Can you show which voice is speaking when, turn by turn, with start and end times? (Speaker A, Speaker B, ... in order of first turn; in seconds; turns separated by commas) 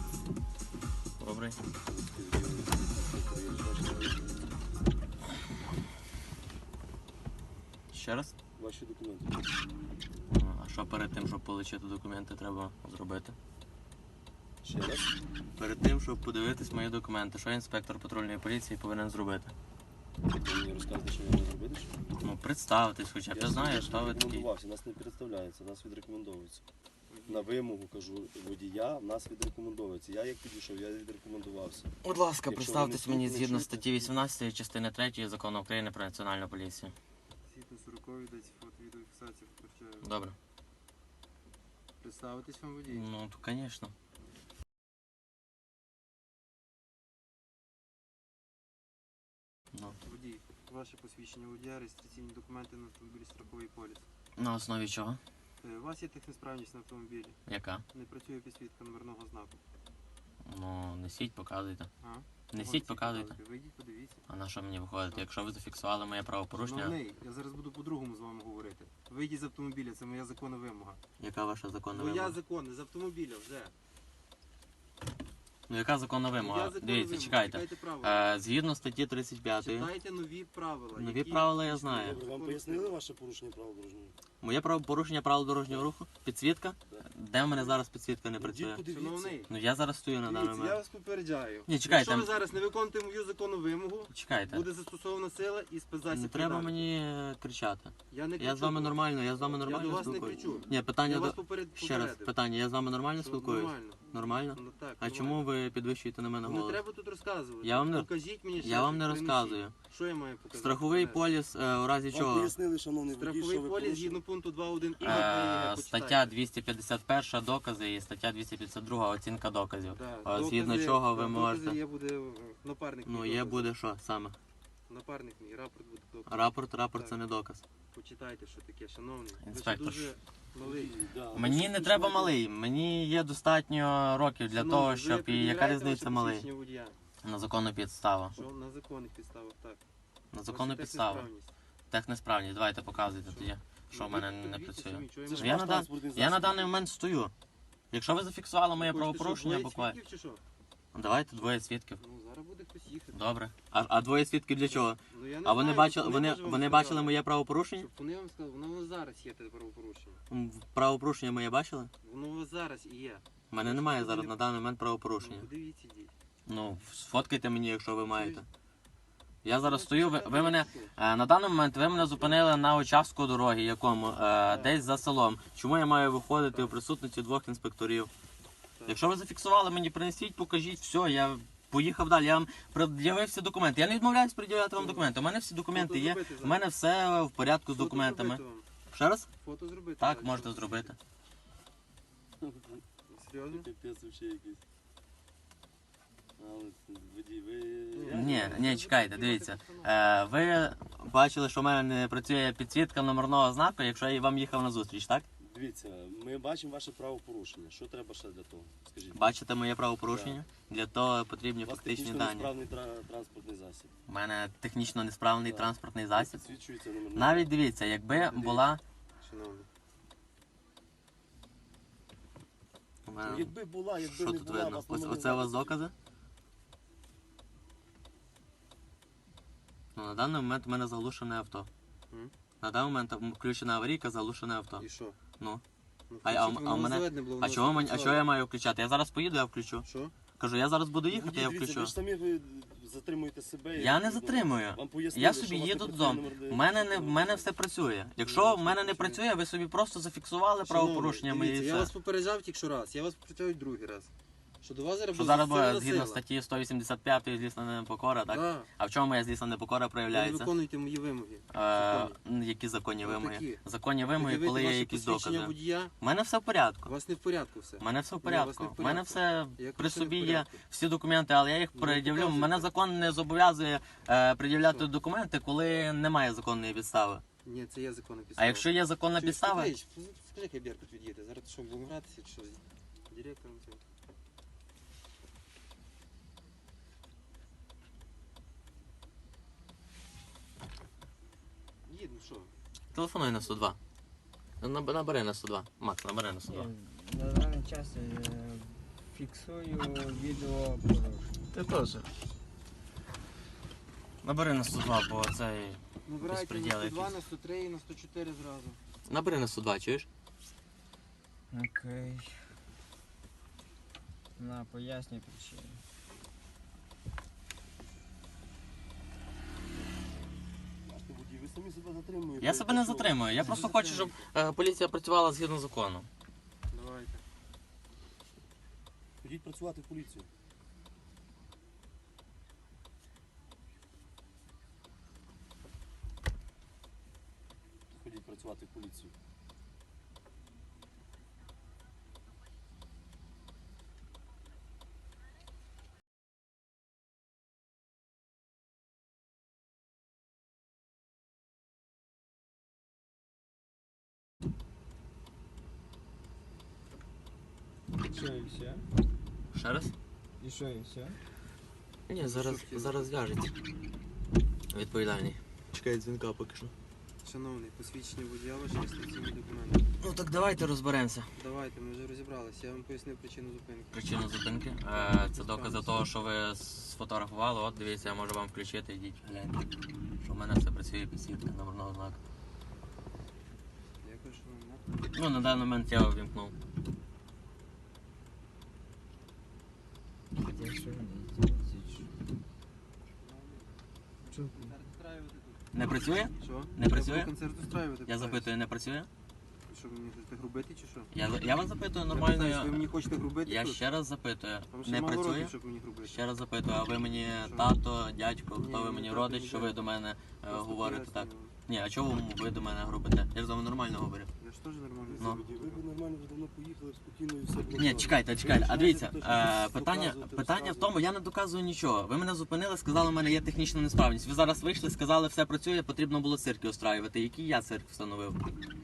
Speaker A: 1.2-1.6, Speaker B: 1.9-4.3, Speaker A: 7.9-8.3, Speaker B: 8.6-9.4, Speaker A: 10.3-13.3, Speaker B: 14.6-15.2, Speaker A: 15.6-19.5, Speaker B: 20.3-21.9, Speaker A: 22.2-24.5, Speaker B: 23.3-26.6, Speaker C: 27.1-27.5, Speaker B: 27.3-31.9, Speaker A: 32.0-36.9, Speaker B: 32.5-34.2, Speaker C: 37.5-40.1, Speaker A: 40.0-40.4, Speaker C: 42.0-43.1, Speaker A: 42.9-43.9, Speaker C: 50.0-54.0, Speaker A: 54.4-55.2, Speaker C: 55.6-57.4, Speaker A: 57.5-57.8, Speaker C: 57.9-59.6, Speaker A: 60.4-61.9, Speaker C: 62.0-64.2, Speaker A: 62.5-63.4, Speaker A: 64.3-67.0, Speaker C: 66.5-71.0, Speaker A: 71.2-72.4, Speaker C: 71.9-73.7, Speaker A: 75.7-79.9, Speaker C: 76.4-78.4, Speaker C: 79.6-83.0, Speaker A: 81.0-82.2, Speaker B: 81.9-84.2, Speaker A: 84.4-88.8, Speaker B: 86.9-87.8, Speaker B: 88.4-89.4, Speaker C: 88.9-89.5, Speaker A: 89.5-90.8, Speaker C: 90.2-96.9, Speaker A: 91.7-92.3, Speaker A: 94.1-94.7, Speaker A: 96.1-106.8, Speaker C: 98.1-102.3, Speaker C: 103.2-105.4, Speaker C: 106.4-111.2, Speaker A: 107.6-109.8, Speaker A: 110.5-112.5, Speaker B: 112.1-114.2, Speaker C: 113.1-116.3, Speaker A: 115.0-121.8, Speaker C: 119.9-123.7, Speaker A: 123.0-124.4, Speaker C: 124.9-127.2, Speaker A: 126.3-127.6, Speaker C: 127.9-130.9, Speaker A: 129.4-130.2, Speaker B: 130.6-132.3, Speaker A: 131.3-136.5, Speaker C: 134.5-137.0, Speaker A: 137.2-138.4, Speaker C: 138.3-139.8, Speaker A: 140.3-141.3, Speaker C: 140.5-141.5, Speaker A: 141.9-147.3, Speaker C: 143.2-145.9, Speaker B: 145.3-146.8, Speaker A: 147.9-150.0, Speaker C: 148.8-150.4, Speaker A: 150.9-152.0, Speaker C: 152.0-153.2, Speaker A: 153.1-157.9, Speaker C: 154.7-157.2, Speaker C: 157.8-160.2, Speaker A: 160.3-161.9, Speaker C: 162.0-164.4, Speaker A: 163.5-165.5, Speaker C: 165.2-166.1, Speaker A: 166.5-168.5, Speaker C: 168.1-168.4, Speaker A: 169.4-178.1, Speaker C: 169.6-170.9, Speaker C: 172.0-172.4, Speaker C: 174.5-174.8, Speaker C: 176.4-176.8, Speaker A: 178.9-188.4, Speaker C: 184.8-185.1, Speaker C: 185.7-186.6, Speaker C: 187.8-188.7, Speaker A: 188.9-189.3, Speaker C: 189.4-190.9, Speaker A: 190.0-191.0, Speaker B: 192.4-192.8, Speaker C: 193.1-193.7, Speaker B: 193.5-194.6, Speaker B: 196.4-198.7, Speaker C: 197.9-199.9, Speaker A: 198.1-205.3, Speaker B: 205.4-209.3, Speaker A: 209.1-212.6, Speaker B: 210.1-210.4, Speaker B: 211.6-213.9, Speaker A: 214.1-216.4, Speaker B: 215.4-217.5, Speaker A: 217.2-218.8, Speaker C: 218.1-218.7, Speaker C: 219.2-219.7, Speaker A: 223.1-225.9, Speaker B: 223.2-225.8, Speaker A: 229.9-231.7, Speaker A: 232.6-234.8, Speaker C: 234.8-235.2, Speaker C: 236.1-238.2, Speaker A: 236.2-239.9, Speaker B: 237.9-238.2, Speaker C: 239.8-240.1, Speaker A: 240.4-242.0, Speaker B: 241.1-247.5, Speaker A: 243.8-251.9, Speaker C: 248.2-249.2, Speaker C: 250.6-254.1, Speaker C: 254.6-256.2, Speaker A: 255.1-260.5, Speaker C: 258.3-258.7, Speaker C: 260.1-262.2, Speaker A: 261.5-266.9, Speaker C: 263.0-263.6, Speaker C: 264.1-265.9, Speaker C: 266.9-270.6, Speaker A: 267.8-277.2, Speaker C: 271.7-272.7, Speaker C: 274.6-274.9, Speaker C: 277.4-283.8, Speaker A: 278.4-279.8, Speaker C: 291.9-292.5, Speaker A: 292.9-293.8, Speaker A: 294.6-296.7, Speaker D: 296.5-301.3, Speaker A: 301.5-302.1, Speaker A: 304.2-307.2, Speaker C: 306.1-308.8, Speaker A: 309.1-310.1, Speaker D: 311.5-312.4, Speaker D: 314.4-315.8, Speaker B: 320.9-323.3, Speaker A: 322.4-326.1, Speaker C: 323.4-324.3, Speaker C: 326.7-327.2, Speaker B: 329.2-330.3, Speaker B: 337.9-339.1, Speaker D: 358.1-358.8, Speaker A: 359.5-359.9, Speaker D: 360.4-361.2, Speaker A: 362.1-363.6, Speaker C: 362.2-363.1, Speaker A: 364.7-366.7, Speaker C: 367.2-369.9, Speaker A: 370.0-371.3, Speaker C: 371.4-374.0, Speaker A: 373.9-379.7, Speaker C: 374.9-376.1, Speaker A: 380.2-382.2, Speaker C: 384.0-385.1, Speaker A: 385.1-386.6, Speaker D: 390.4-392.1, Speaker C: 393.2-393.8, Speaker D: 394.3-394.7, Speaker C: 394.3-395.6, Speaker A: 395.7-397.3, Speaker C: 396.4-398.5, Speaker A: 398.1-399.1, Speaker C: 399.7-401.1, Speaker A: 401.1-402.9, Speaker C: 402.1-403.8, Speaker A: 403.4-414.3, Speaker C: 404.7-406.2, Speaker C: 407.4-407.7, Speaker C: 408.5-409.8, Speaker C: 410.5-411.5, Speaker C: 414.4-415.9, Speaker B: 415.1-421.0, Speaker A: 417.8-428.4